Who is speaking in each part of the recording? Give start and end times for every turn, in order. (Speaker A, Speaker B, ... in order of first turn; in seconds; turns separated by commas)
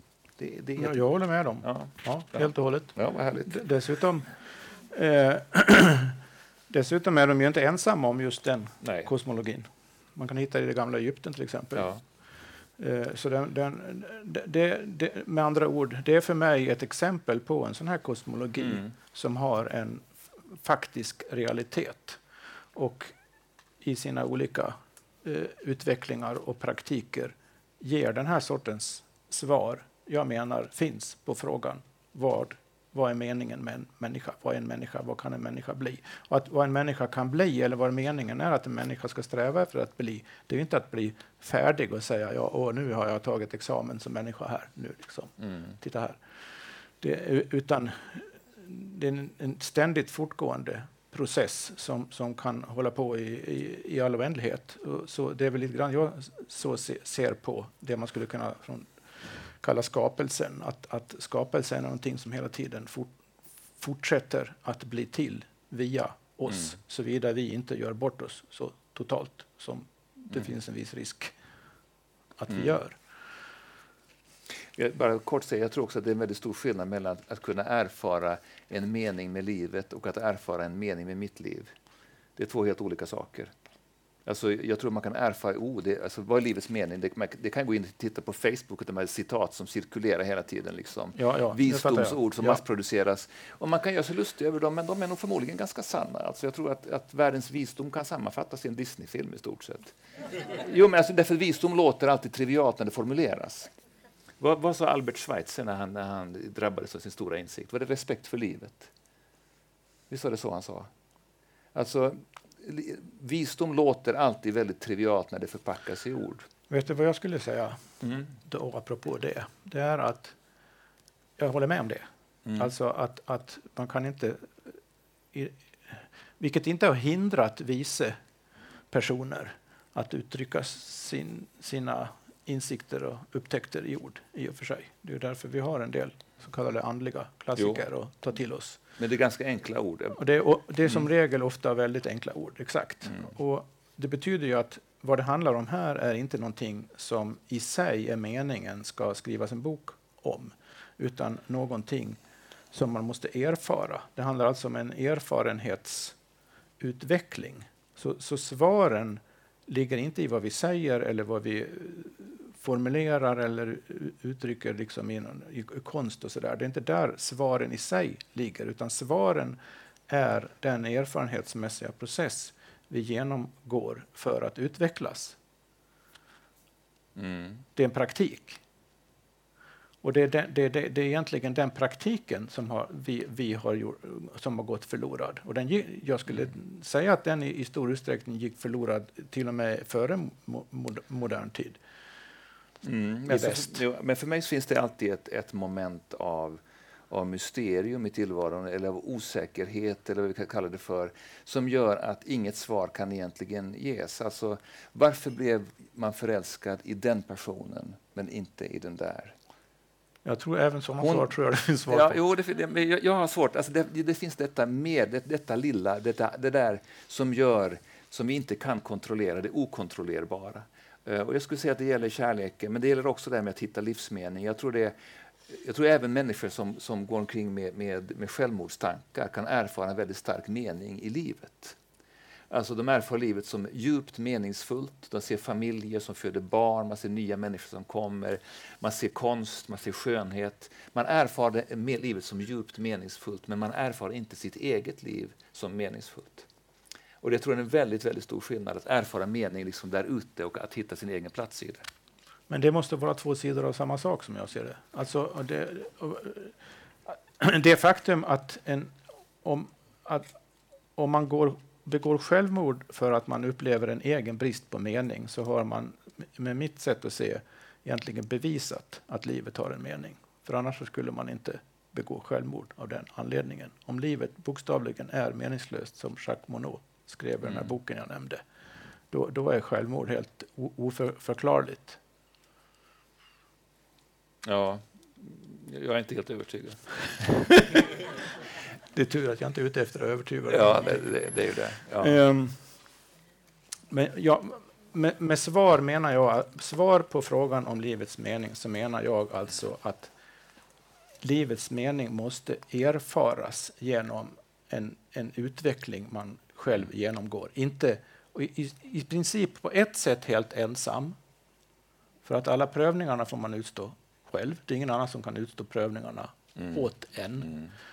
Speaker A: 0.4-1.1, Speaker B: 0.8-4.3, Speaker A: 1.6-3.7, Speaker B: 4.9-6.2, Speaker B: 6.7-11.9, Speaker A: 8.8-9.1, Speaker A: 11.8-12.0, Speaker B: 12.8-22.2, Speaker A: 18.6-18.9, Speaker B: 22.8-23.1, Speaker B: 23.8-46.2, Speaker A: 45.4-45.7, Speaker B: 47.0-63.1, Speaker B: 63.8-71.3, Speaker B: 72.4-73.0, Speaker A: 74.8-81.7, Speaker A: 82.4-83.5, Speaker A: 84.3-103.7, Speaker B: 91.2-92.6, Speaker A: 104.4-108.9, Speaker A: 110.1-110.9, Speaker A: 111.7-116.5, Speaker B: 116.7-117.8, Speaker A: 118.0-118.3, Speaker B: 118.5-120.3, Speaker B: 121.4-124.8, Speaker A: 122.5-122.7, Speaker B: 125.3-128.2, Speaker B: 128.9-138.8, Speaker A: 137.6-137.8, Speaker A: 139.0-140.2, Speaker B: 140.2-152.2, Speaker B: 152.7-156.2, Speaker B: 156.8-175.4, Speaker A: 177.2-177.7, Speaker B: 177.8-178.6, Speaker B: 180.0-191.8, Speaker A: 192.8-209.3, Speaker B: 193.3-193.8, Speaker B: 210.2-212.2, Speaker A: 211.0-211.3, Speaker A: 211.9-231.8, Speaker A: 232.5-246.5, Speaker A: 247.2-251.9, Speaker B: 252.5-256.5, Speaker B: 257.1-260.3, Speaker B: 261.0-278.4, Speaker B: 279.1-282.0, Speaker A: 284.4-287.8, Speaker B: 288.9-291.1, Speaker A: 290.5-292.2, Speaker B: 292.0-292.6, Speaker B: 293.9-300.1, Speaker B: 301.2-311.2, Speaker B: 312.2-317.5, Speaker A: 317.4-317.7